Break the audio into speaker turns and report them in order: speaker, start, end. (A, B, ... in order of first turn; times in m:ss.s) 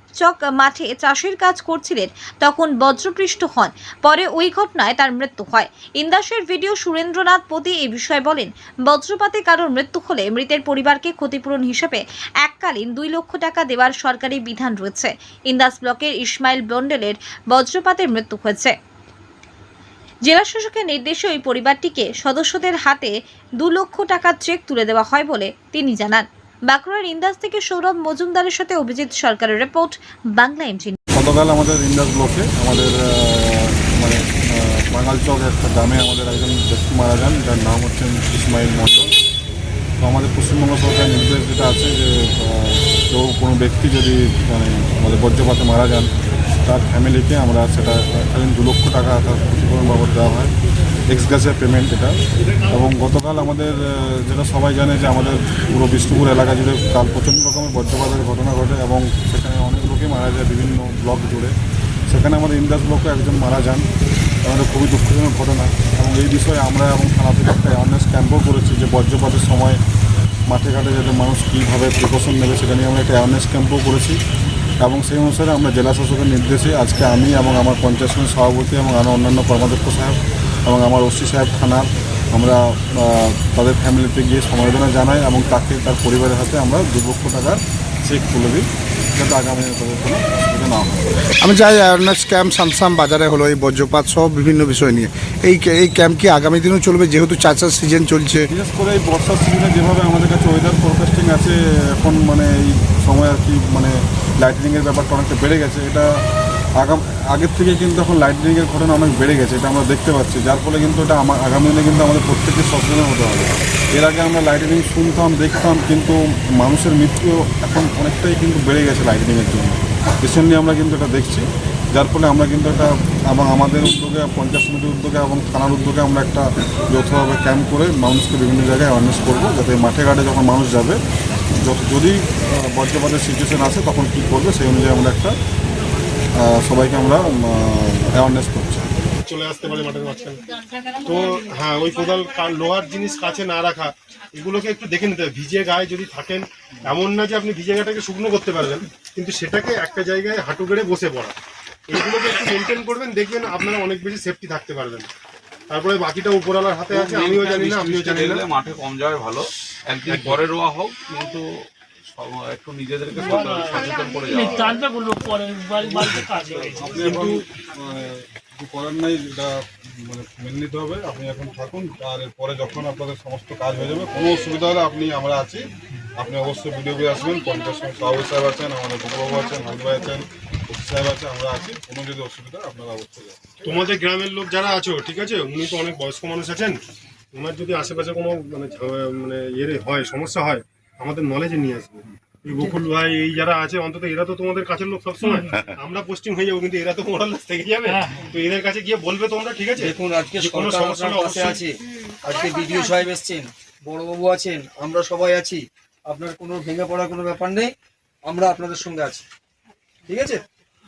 0:00.2-0:18.7 A
0:20.3-0:31.0 A
0:31.2-0:39.1 B
0:40.0-0:46.1 B
0:46.6-0:50.5 B
0:51.1-0:52.2 B
0:52.7-1:01.5 B
1:02.1-1:03.9 B
1:04.4-1:09.8 B
1:10.5-1:14.2 B
1:14.8-1:31.1 B
1:31.4-1:38.5 C
1:38.5-1:46.1 B
1:46.8-2:11.0 B
2:11.6-2:15.4 B
2:16.4-2:18.9 B
2:19.2-2:31.4 D
2:31.9-2:35.1 D
2:35.7-2:38.5 D
2:36.9-2:44.8 E
2:40.1-2:40.4 D
2:43.2-2:47.3 F
2:46.1-3:03.4 B
3:03.6-3:06.8 D
3:07.3-3:21.6 D
3:17.8-3:18.3 F
3:19.8-3:27.7 G
3:28.2-3:29.2 G
3:30.1-3:30.4 G